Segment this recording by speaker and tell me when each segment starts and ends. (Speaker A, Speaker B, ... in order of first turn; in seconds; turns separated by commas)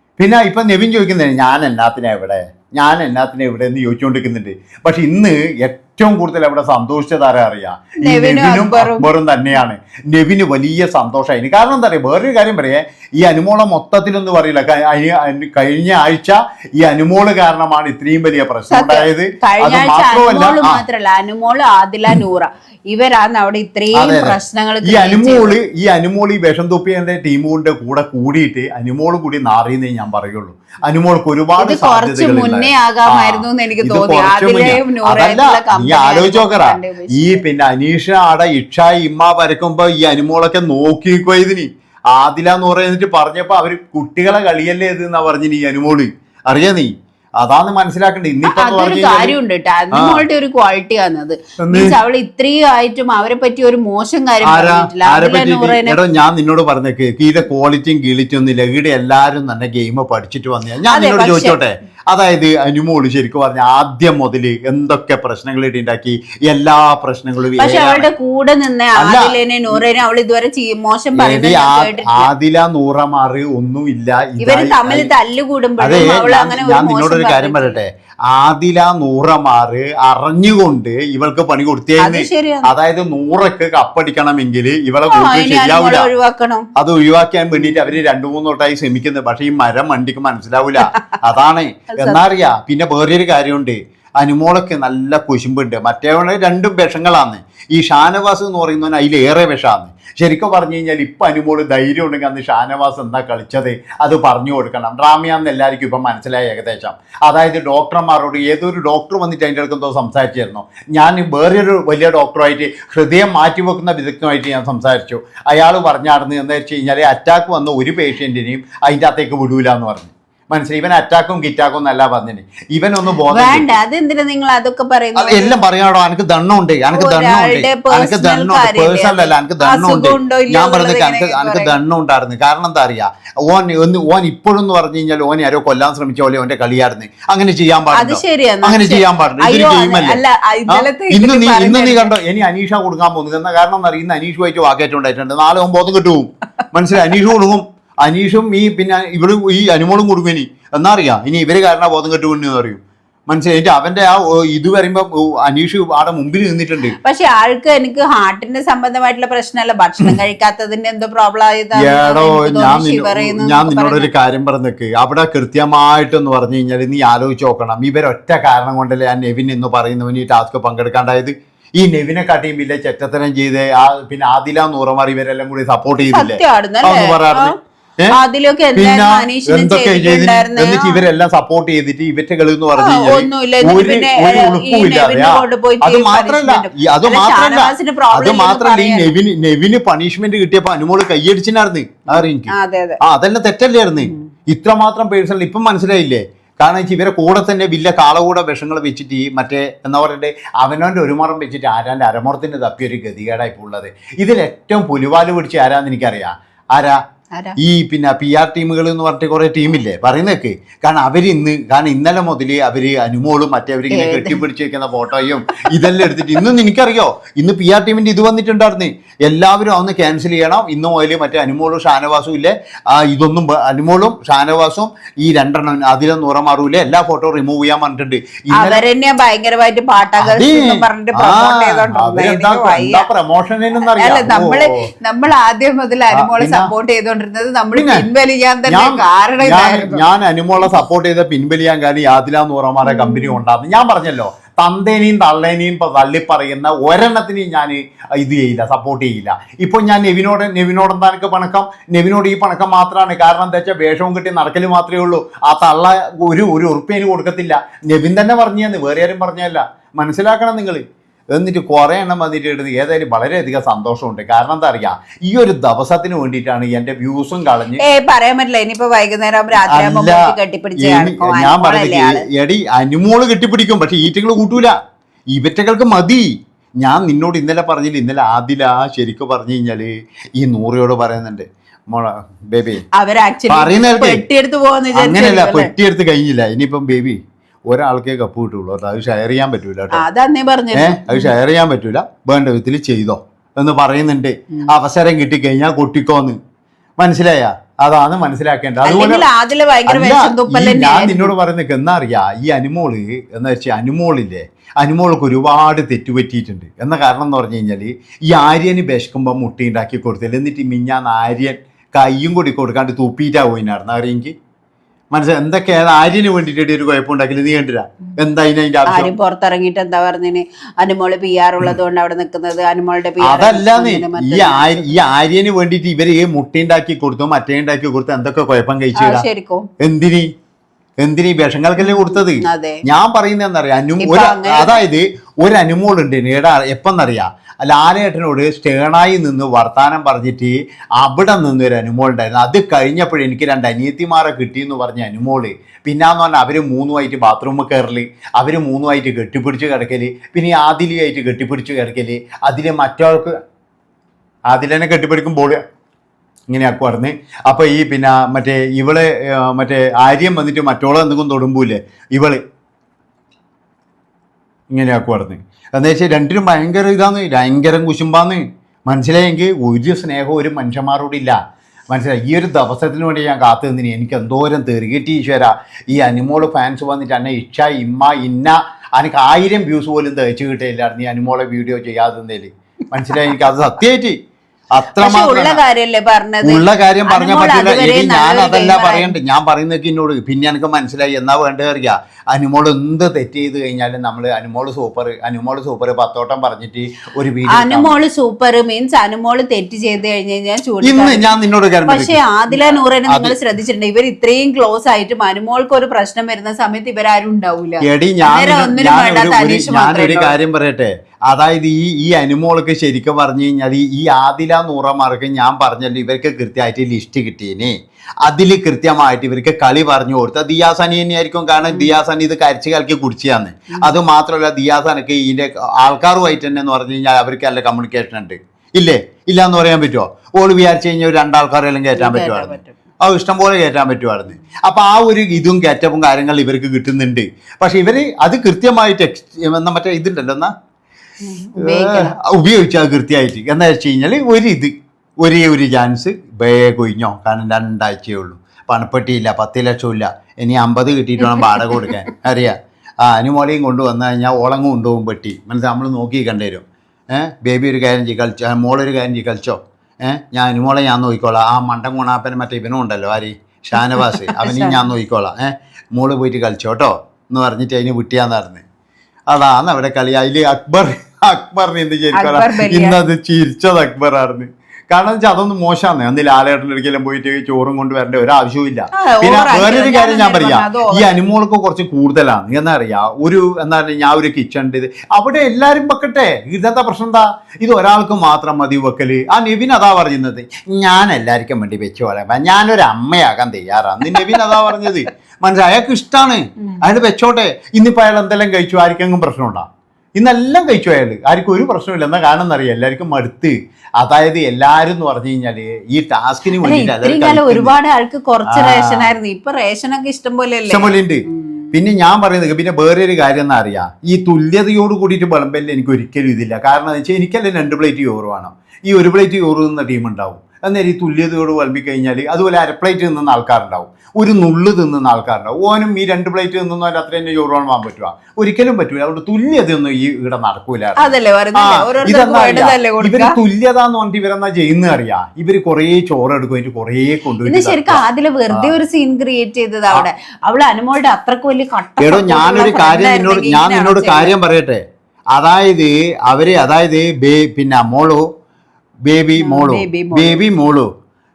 Speaker A: 0.2-20.8, Speaker B: 8.0-9.1, Speaker B: 18.7-25.6, Speaker A: 23.9-49.4, Speaker B: 31.6-37.4, Speaker B: 48.5-56.0, Speaker A: 49.9-50.2, Speaker A: 51.6-52.0, Speaker A: 54.4-68.1, Speaker B: 60.9-61.6, Speaker B: 67.6-72.3, Speaker A: 69.0-69.8, Speaker A: 71.2-75.1, Speaker B: 74.4-77.8, Speaker A: 75.8-86.1, Speaker B: 82.0-82.7, Speaker B: 85.1-86.7, Speaker A: 86.8-123.8, Speaker B: 87.6-88.0, Speaker B: 92.0-92.2, Speaker B: 123.3-125.6, Speaker A: 125.2-157.0, Speaker B: 126.9-131.7, Speaker B: 137.9-142.1, Speaker B: 157.0-164.1, Speaker A: 161.8-178.2, Speaker B: 176.1-177.5, Speaker B: 178.1-181.0, Speaker A: 178.8-207.0, Speaker B: 182.8-189.1, Speaker B: 192.1-193.0, Speaker A: 207.6-228.8, Speaker B: 213.9-214.4, Speaker B: 228.6-233.1, Speaker A: 230.2-234.8, Speaker B: 234.0-240.0, Speaker A: 236.1-236.7, Speaker A: 237.7-238.1, Speaker A: 238.7-260.8, Speaker B: 240.6-240.8, Speaker B: 242.8-243.4, Speaker A: 261.4-267.8, Speaker B: 267.8-272.3, Speaker A: 269.6-274.8, Speaker A: 275.3-276.3, Speaker A: 276.8-282.8, Speaker B: 282.9-285.7, Speaker A: 283.5-284.2, Speaker A: 284.9-290.0, Speaker B: 289.9-291.3, Speaker A: 290.8-296.4, Speaker A: 297.0-299.3, Speaker B: 298.9-301.3, Speaker A: 299.9-314.3, Speaker A: 315.1-319.1, Speaker B: 318.9-324.9, Speaker A: 323.2-329.2, Speaker B: 329.0-329.7, Speaker A: 329.8-330.3, Speaker A: 331.0-353.3, Speaker B: 331.8-332.8, Speaker B: 334.0-334.8, Speaker A: 354.5-355.6, Speaker A: 356.5-362.4, Speaker A: 364.7-371.4, Speaker A: 371.9-384.2, Speaker A: 384.7-385.6, Speaker B: 385.0-389.1, Speaker A: 386.4-398.0, Speaker B: 397.5-401.3, Speaker A: 400.8-403.4, Speaker B: 401.9-410.3, Speaker A: 407.8-440.5, Speaker B: 432.0-432.8, Speaker B: 441.2-442.1, Speaker A: 441.6-468.6, Speaker B: 451.2-452.0, Speaker B: 463.9-464.9, Speaker A: 469.3-499.7, Speaker B: 472.1-473.0, Speaker B: 479.0-481.1, Speaker B: 494.3-494.8, Speaker A: 500.2-507.8, Speaker B: 506.6-511.7, Speaker A: 508.5-509.1, Speaker A: 510.7-538.7, Speaker B: 531.0-533.4, Speaker B: 537.5-544.3, Speaker A: 542.0-544.8, Speaker A: 545.3-548.2, Speaker A: 549.1-550.9, Speaker B: 549.4-550.5